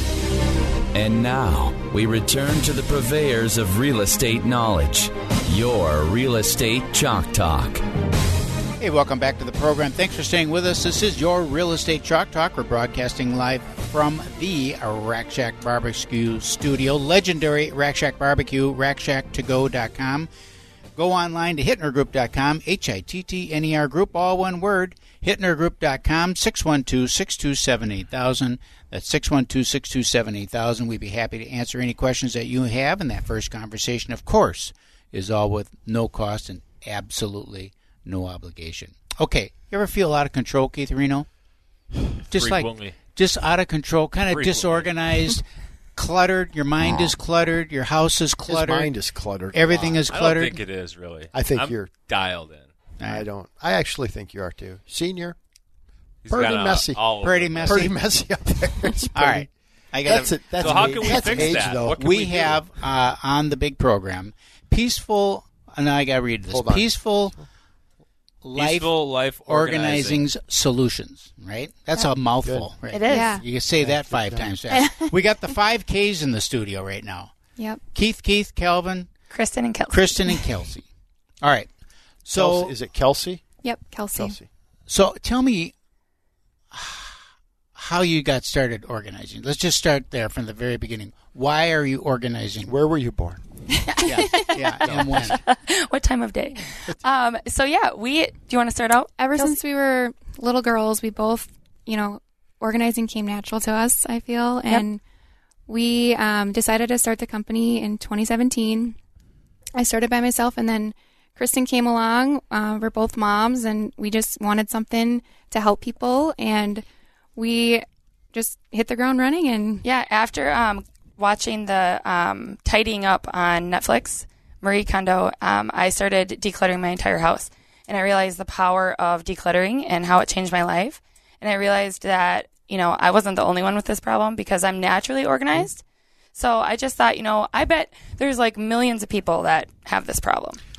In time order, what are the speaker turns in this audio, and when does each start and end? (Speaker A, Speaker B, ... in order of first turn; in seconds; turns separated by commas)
Speaker A: 0.9-7.8, Speaker B: 8.8-20.3, Speaker B: 21.0-41.3, Speaker C: 42.3-43.0, Speaker B: 42.3-45.4, Speaker C: 44.3-45.0, Speaker B: 46.0-48.9, Speaker D: 48.5-50.0, Speaker B: 49.5-50.6, Speaker C: 50.1-52.7, Speaker D: 51.3-51.9, Speaker B: 53.0-53.3, Speaker D: 53.0-55.4, Speaker C: 56.2-57.9, Speaker D: 56.3-59.5, Speaker B: 57.2-58.0, Speaker B: 59.1-67.3, Speaker D: 60.0-62.0, Speaker C: 60.6-62.6, Speaker D: 66.5-67.5, Speaker B: 68.4-69.0, Speaker C: 68.5-70.3, Speaker B: 69.5-77.3, Speaker D: 72.3-72.8, Speaker E: 72.9-73.4, Speaker F: 73.2-73.4, Speaker D: 73.6-74.6, Speaker F: 74.7-75.1, Speaker B: 77.9-79.1, Speaker E: 79.3-80.3, Speaker B: 79.9-80.9, Speaker B: 81.4-81.7, Speaker B: 82.2-82.8, Speaker D: 82.3-83.4, Speaker F: 83.6-84.3, Speaker D: 84.1-84.5, Speaker B: 84.9-85.7, Speaker B: 86.7-87.2, Speaker B: 87.8-92.8, Speaker D: 92.7-93.4, Speaker E: 93.9-99.6, Speaker B: 94.0-95.4, Speaker D: 94.8-95.2, Speaker F: 99.2-105.0, Speaker F: 105.7-109.0, Speaker F: 109.8-116.8, Speaker F: 117.4-117.8, Speaker F: 118.3-119.8, Speaker E: 119.8-135.8, Speaker E: 136.3-140.6